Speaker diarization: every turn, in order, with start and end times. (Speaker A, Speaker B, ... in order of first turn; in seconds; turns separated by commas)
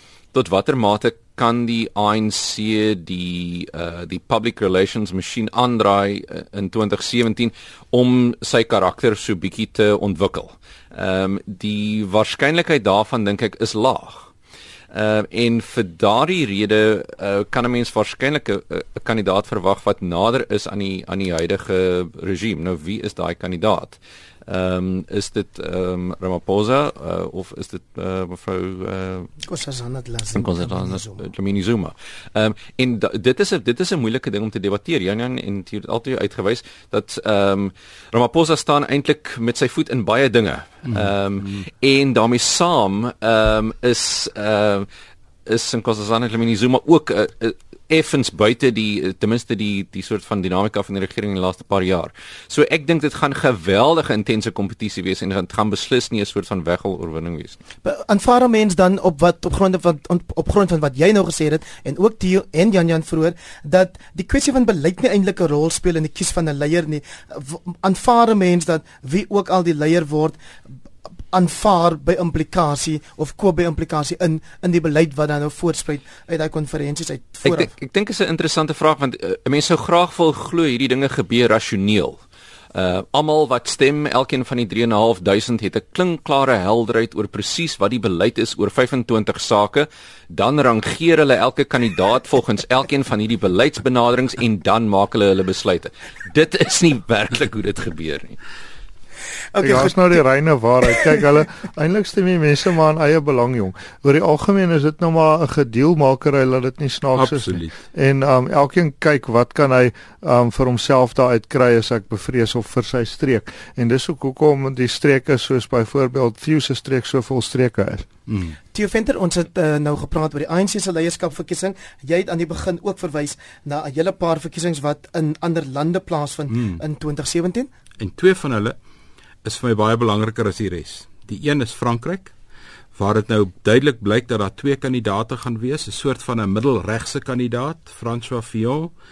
Speaker A: 0.3-14.3, Speaker A: 14.9-29.3, Speaker B: 29.4-31.3, Speaker A: 30.4-44.9, Speaker C: 40.9-41.6, Speaker A: 45.5-57.6, Speaker B: 57.8-70.4, Speaker B: 71.3-77.7, Speaker A: 77.5-82.2, Speaker A: 82.7-98.4, Speaker B: 99.5-100.2, Speaker D: 99.6-118.1, Speaker C: 107.2-107.7, Speaker C: 118.3-118.6, Speaker B: 118.7-127.7, Speaker C: 128.0-128.8, Speaker C: 129.4-132.3, Speaker C: 132.9-138.9